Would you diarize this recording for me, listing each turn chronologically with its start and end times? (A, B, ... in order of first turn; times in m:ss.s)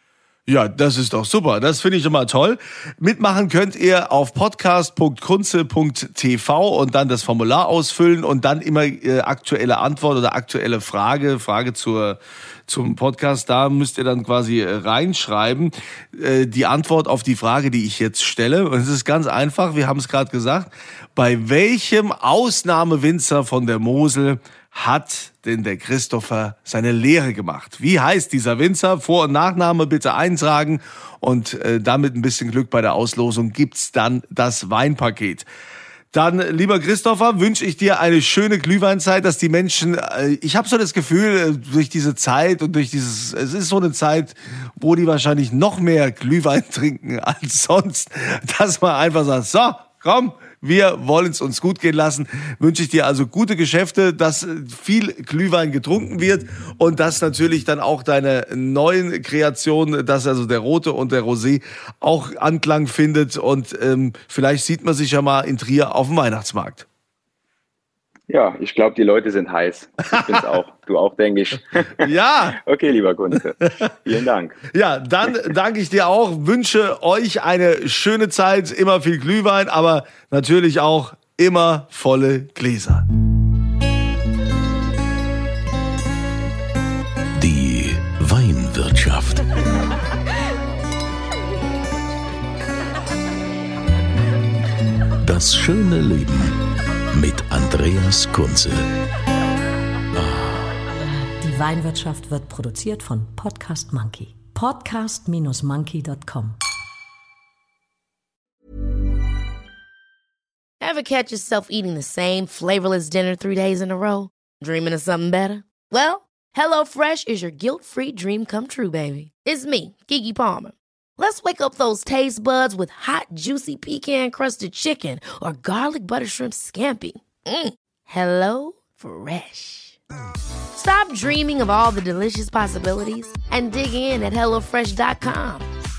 0:00.5-0:35.5 A
0:36.1-1:06.9 A
1:08.3-1:14.6 B
1:10.1-1:10.4 A
1:12.0-1:12.6 A
1:14.7-1:23.1 A
1:27.4-1:29.4 C
1:35.2-1:36.5 C
1:37.1-1:38.9 C
1:40.1-1:40.6 C
1:41.4-1:46.6 D
1:50.8-2:09.9 E
2:10.7-2:15.7 E